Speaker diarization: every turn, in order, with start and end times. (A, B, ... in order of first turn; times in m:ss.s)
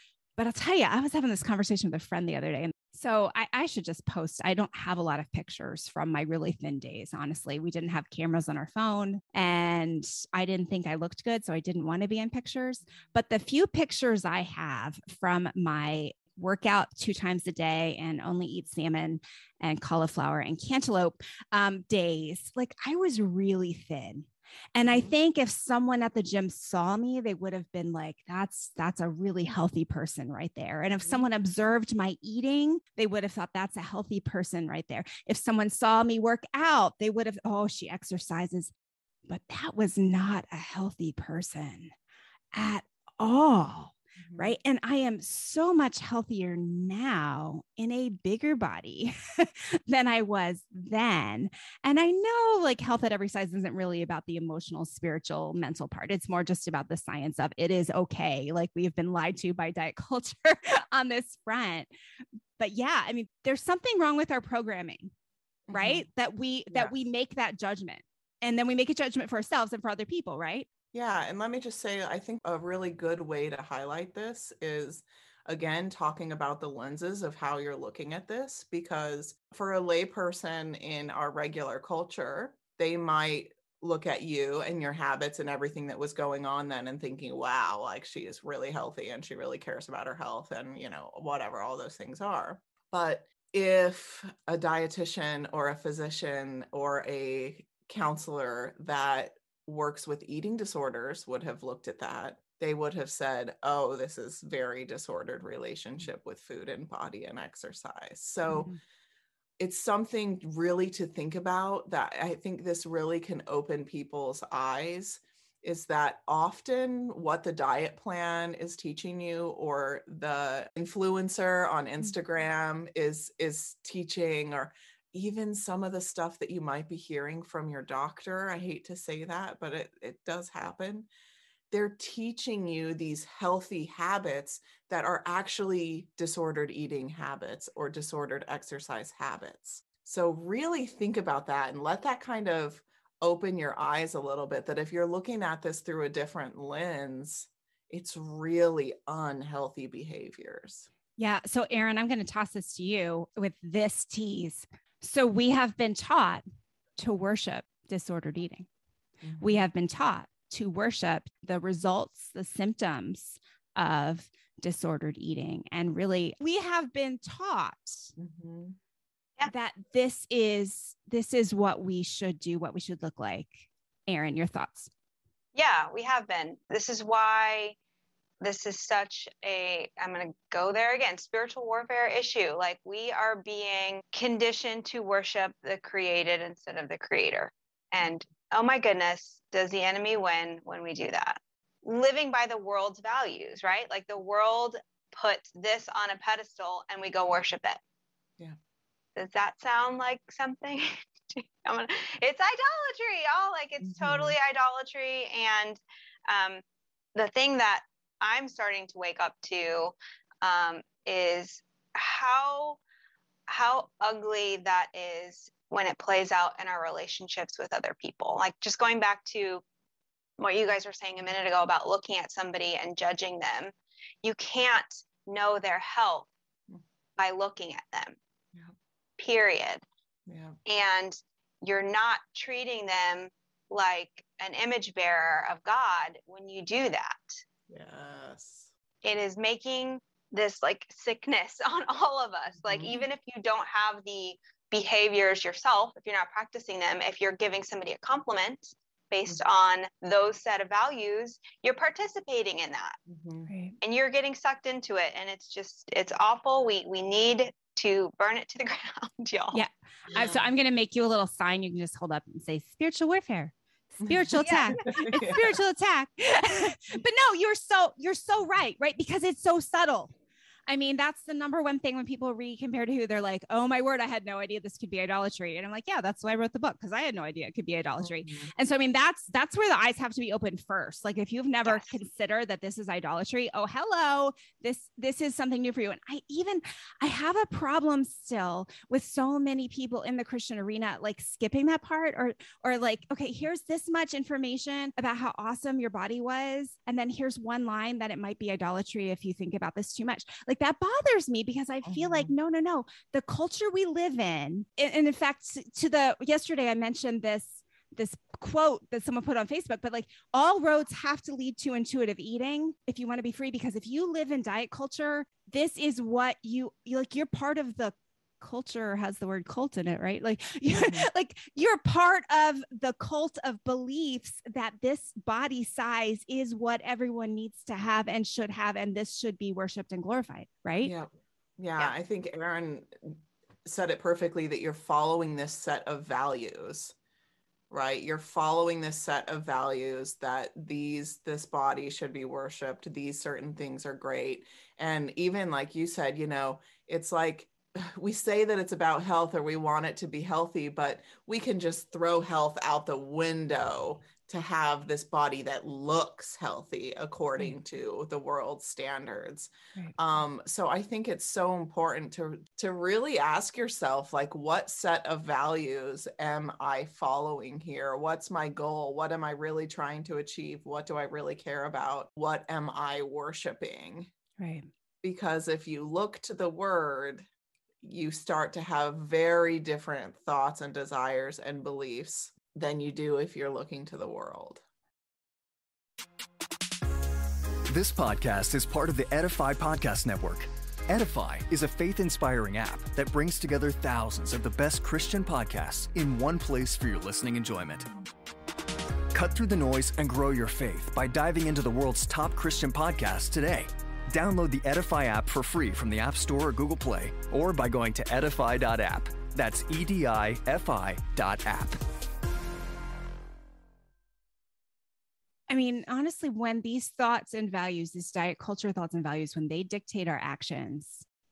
0:00.4-0:38.7 A
0:24.9-0:25.1 B
0:31.0-0:31.3 B
0:39.3-0:41.9 A
0:42.5-1:01.9 A
0:44.2-0:44.6 B
1:02.6-1:05.1 A
1:05.7-1:06.1 B
1:05.7-1:10.7 A
1:10.9-1:48.7 B
1:48.5-1:48.8 A
1:49.6-2:11.1 B
2:11.7-2:30.9 B
2:31.2-2:36.4 A
2:37.0-2:38.7 A
2:39.2-2:39.6 B
2:39.4-2:48.1 A
2:48.2-2:48.8 B
2:49.5-2:54.9 A
2:55.6-2:57.8 C
2:58.4-3:17.8 C
3:19.2-3:26.6 C
3:23.8-3:24.4 B
3:27.2-3:32.8 C
3:33.5-3:39.6 C
3:40.4-3:46.3 C
3:47.2-3:48.2 C
3:49.2-3:49.8 C
3:50.3-3:50.6 B
3:50.7-3:57.4 C
3:57.7-3:58.7 B
3:59.0-4:13.0 C
4:02.6-4:03.0 B
4:13.1-4:13.5 B
4:13.5-4:13.8 A
4:13.8-4:19.6 C
4:19.5-4:30.1 A
4:20.1-4:20.4 B
4:24.0-4:25.6 B
4:24.4-4:24.7 C
4:30.7-5:30.9 A
4:38.0-4:38.5 B
4:41.7-4:41.9 C
5:01.8-5:02.3 B
5:20.7-5:21.1 B
5:30.8-5:37.0 B
5:37.7-6:14.1 B
6:14.4-6:14.7 A
6:15.0-6:17.2 B
6:17.8-6:24.6 B
6:27.7-6:37.9 D
6:39.1-6:51.8 D
6:55.5-7:01.0 A